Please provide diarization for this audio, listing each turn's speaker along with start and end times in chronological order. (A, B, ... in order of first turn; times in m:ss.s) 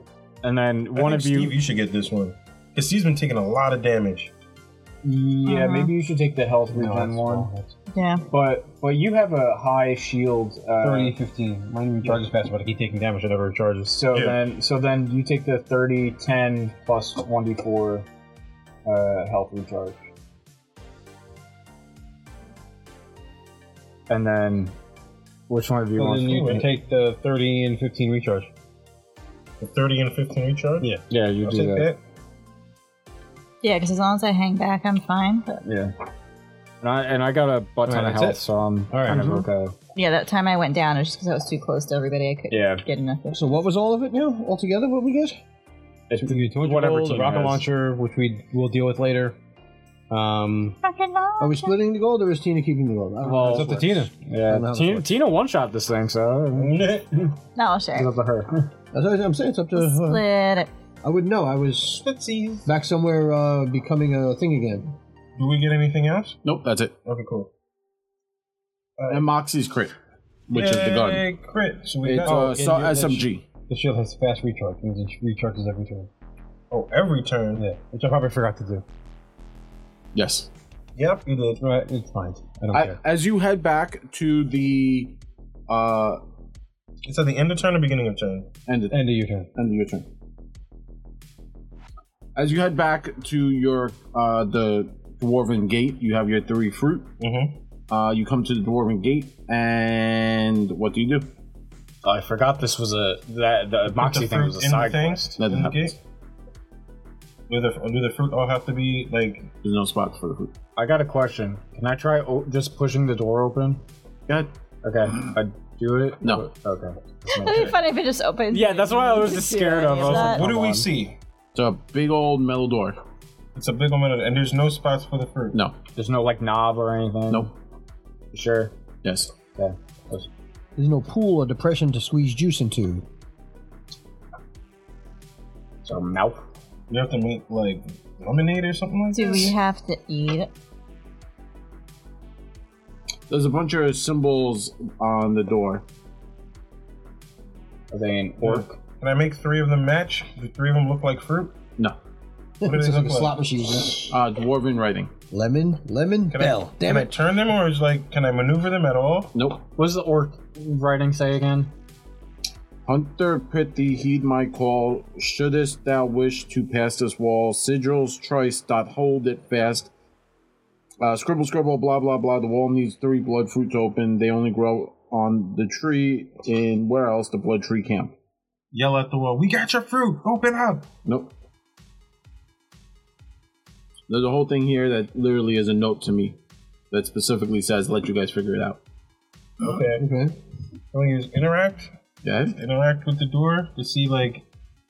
0:00.4-0:01.6 A
0:01.0-0:04.3 B
0:05.0-0:07.5 A
0:05.4-0:05.9 C
0:06.7-0:07.7 D
0:07.9-0:08.2 C
0:08.3-0:11.2 A
0:10.8-0:14.0 D
0:13.9-0:18.1 A
0:14.1-0:14.4 B
0:18.9-0:20.0 A
0:24.1-0:24.7 A
0:25.5-0:26.6 A
0:26.0-0:28.5 D
0:26.2-0:26.6 B
0:29.6-0:30.9 B
0:31.1-0:31.9 A
0:31.4-0:32.0 B
0:33.6-0:35.6 C
0:35.6-0:35.9 A
0:36.8-0:39.8 A
0:37.9-0:39.5 D
0:40.0-0:43.5 C
0:42.5-0:42.8 A
0:43.3-0:45.4 E
0:46.1-0:47.6 A
0:46.2-0:49.4 D
0:50.1-0:50.8 D
0:50.8-0:51.8 C
0:51.4-0:55.1 E
0:53.2-0:56.8 A
0:53.4-0:54.1 D
0:56.5-0:57.3 B
0:57.6-0:58.1 C
0:57.9-0:58.7 A
0:58.9-1:00.2 E
0:59.8-1:00.7 C
1:01.0-1:02.0 E
1:02.0-1:02.7 B
1:02.6-1:04.9 E
1:05.4-1:06.4 B
1:06.4-1:07.0 F
1:07.0-1:07.5 B
1:09.0-1:09.3 B
1:09.1-1:10.0 F
1:10.5-1:11.2 F
1:10.5-1:12.6 B
1:12.0-1:13.4 F
1:12.2-1:16.1 D
1:16.7-1:17.6 B
1:17.6-1:18.8 D
1:20.2-1:20.5 F
1:21.0-1:21.6 B
1:21.6-1:23.0 D
1:22.7-1:26.2 F
1:27.0-1:28.5 B
1:28.7-1:30.1 F
1:28.9-1:29.5 D
1:32.4-1:37.1 F
1:37.2-1:37.6 B
1:37.9-1:41.3 F
1:42.0-1:45.3 A
1:43.9-1:46.0 B
1:45.4-1:46.0 F
1:47.5-1:49.5 B
1:49.6-1:50.5 F
1:50.8-1:53.8 A
1:54.8-1:57.7 A
1:57.3-2:00.5 C
1:58.5-2:00.9 A
2:00.0-2:01.2 B
2:01.6-2:03.0 F
2:03.6-2:05.6 B
2:06.0-2:07.5 A
2:08.3-2:08.7 A
2:09.0-2:09.3 F
2:09.6-2:10.3 A
2:10.8-2:13.0 E
2:15.8-2:16.4 A
2:16.9-2:19.6 B
2:19.1-2:20.5 C
2:23.3-2:25.8 F
2:27.9-2:28.8 A
2:28.4-2:31.6 B
2:32.6-2:34.2 E
2:32.6-2:33.4 B
2:34.1-2:35.1 F
2:35.3-2:37.1 E
2:36.3-2:39.3 B
2:39.3-2:39.6 F
2:39.8-2:41.7 A
2:42.9-2:49.9 F
2:51.0-2:58.2 F
2:58.7-3:00.9 B
3:01.0-3:01.3 F
3:04.1-3:06.4 F
3:06.9-3:08.8 F
3:09.6-3:10.1 B
3:10.0-3:10.4 E
3:10.9-3:11.9 B
3:12.2-3:12.6 F
3:12.5-3:14.4 B